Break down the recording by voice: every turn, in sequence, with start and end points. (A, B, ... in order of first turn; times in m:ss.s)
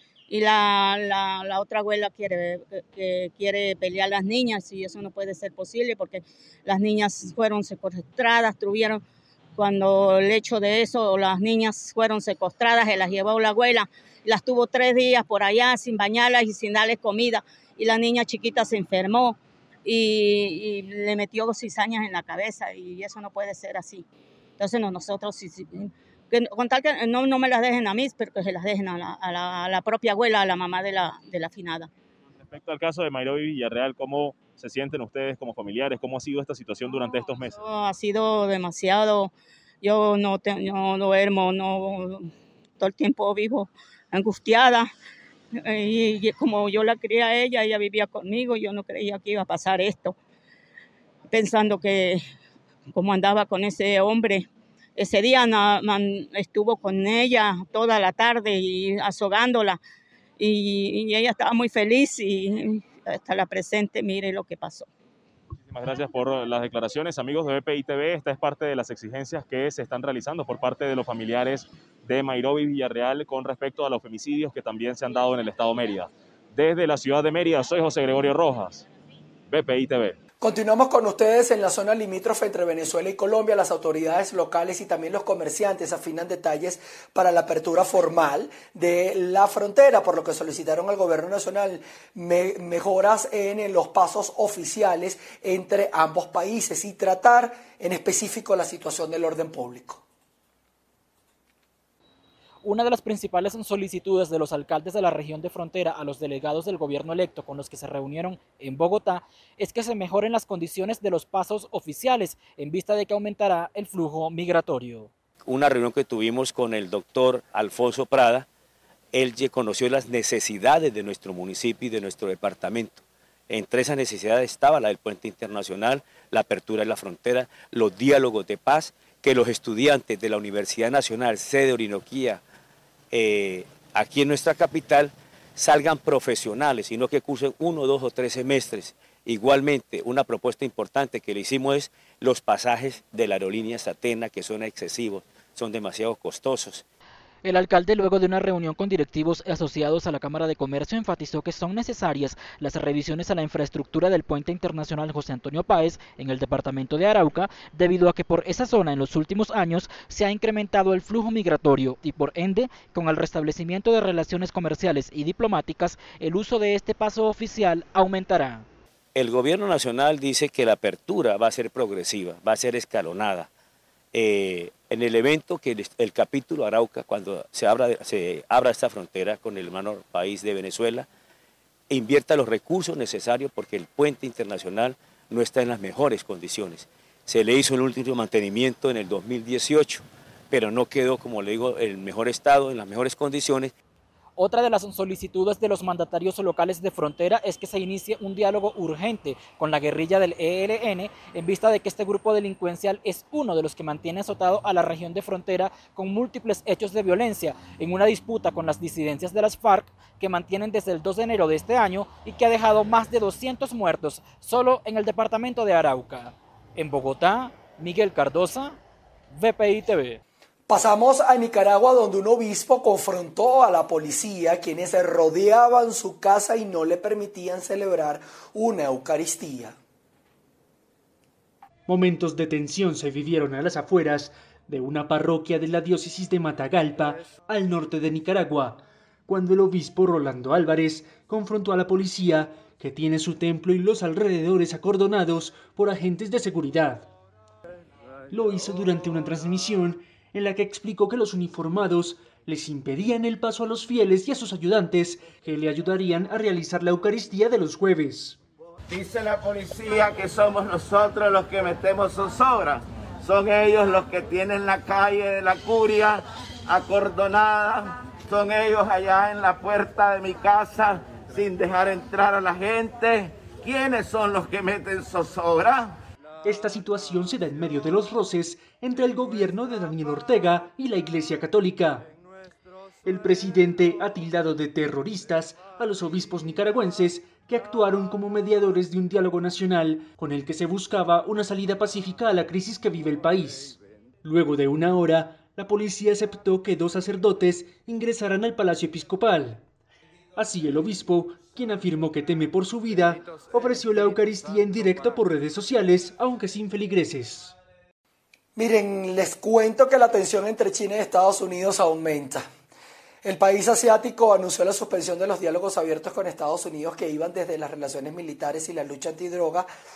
0:00.3-0:09.0 A
0:09.6-0:24.0 A
0:24.6-0:31.9 A
0:32.4-0:37.6 B
0:36.9-0:44.9 A
0:45.5-0:50.2 A
0:51.3-0:52.2 A
0:52.9-0:59.8 A
1:00.4-1:04.9 A
1:05.7-1:18.8 B
1:19.5-1:20.2 B
1:20.4-1:40.0 C
1:42.6-1:55.1 D
1:55.4-1:58.5 E
1:59.1-2:12.4 E
2:13.1-2:26.8 E
2:27.4-2:48.6 D
2:49.1-2:53.5 E
2:54.1-3:01.1 E
3:01.9-3:13.7 E
3:14.4-3:38.8 D
3:39.3-3:40.2 D
3:40.7-3:49.8 C
3:51.9-4:07.1 F
4:08.3-4:18.4 F
4:18.9-4:36.0 G
4:36.4-4:42.1 F
4:43.0-4:59.6 F
5:00.4-5:07.6 F
5:08.6-5:12.5 C
5:13.2-5:19.7 C